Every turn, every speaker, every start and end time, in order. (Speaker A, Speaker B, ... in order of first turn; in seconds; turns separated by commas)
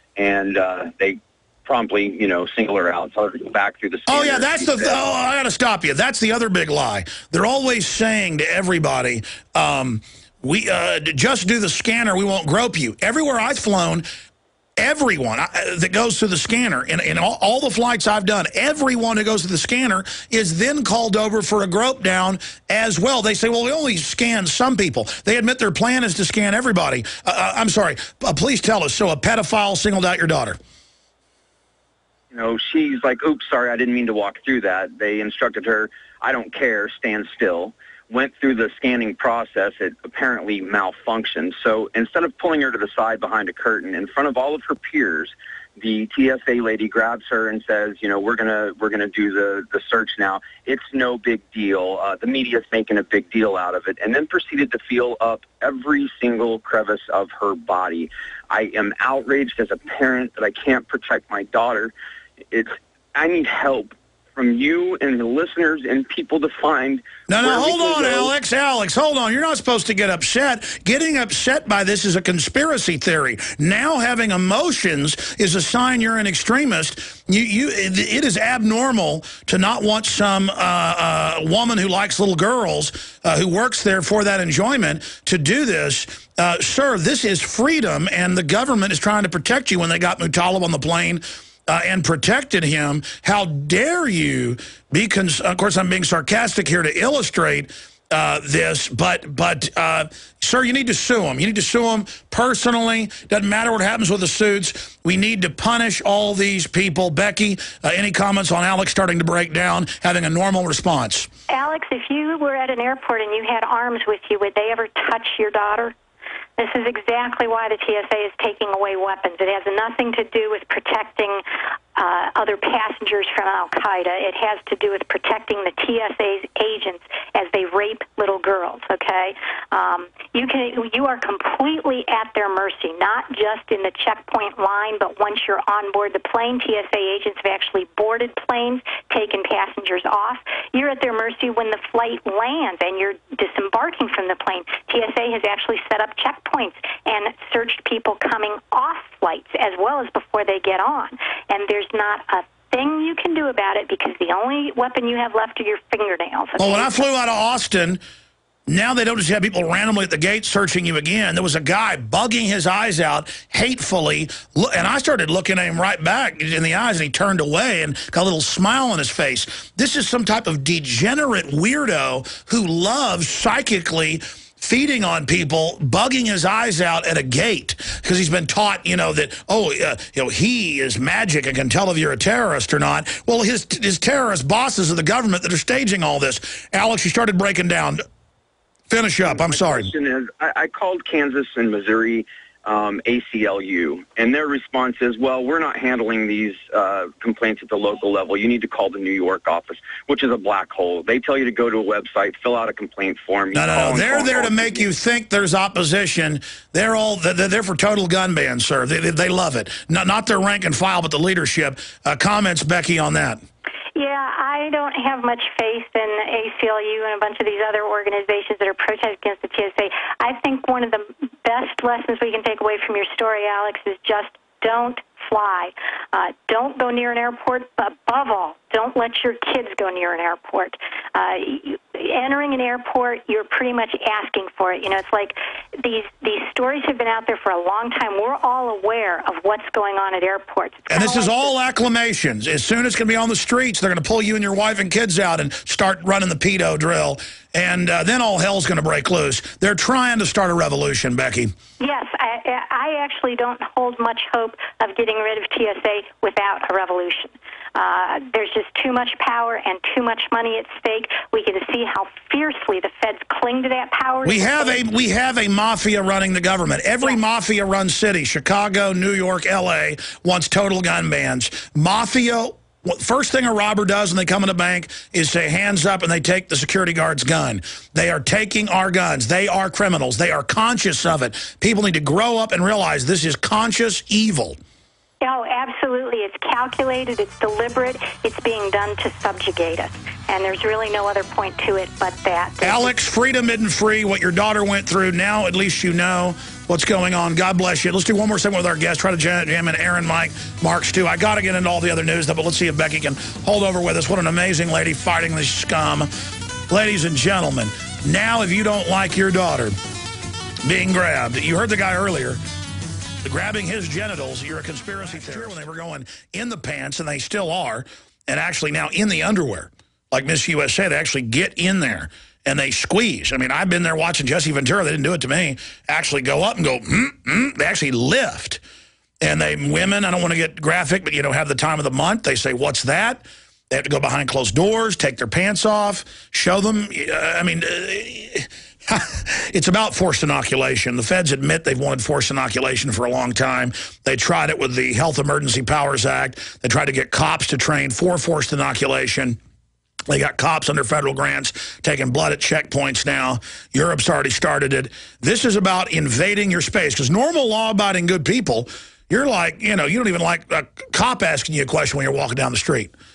Speaker A: 0.1-5.0, Speaker B: 4.1-14.1, Speaker B: 14.8-30.6, Speaker A: 32.3-61.9, Speaker A: 62.5-68.3, Speaker B: 67.3-111.3, Speaker C: 111.5-115.9, Speaker C: 116.6-121.4, Speaker C: 121.9-157.0, Speaker B: 156.6-158.0, Speaker B: 158.7-188.0, Speaker B: 188.9-189.9, Speaker A: 189.2-204.9, Speaker B: 203.5-213.4, Speaker C: 213.9-241.5, Speaker B: 240.9-251.5, Speaker C: 251.8-264.8, Speaker B: 264.2-284.6, Speaker C: 285.2-292.9, Speaker B: 292.6-306.1, Speaker B: 306.7-309.8, Speaker B: 310.6-312.4, Speaker B: 313.2-328.6, Speaker B: 329.2-349.4, Speaker B: 350.1-362.9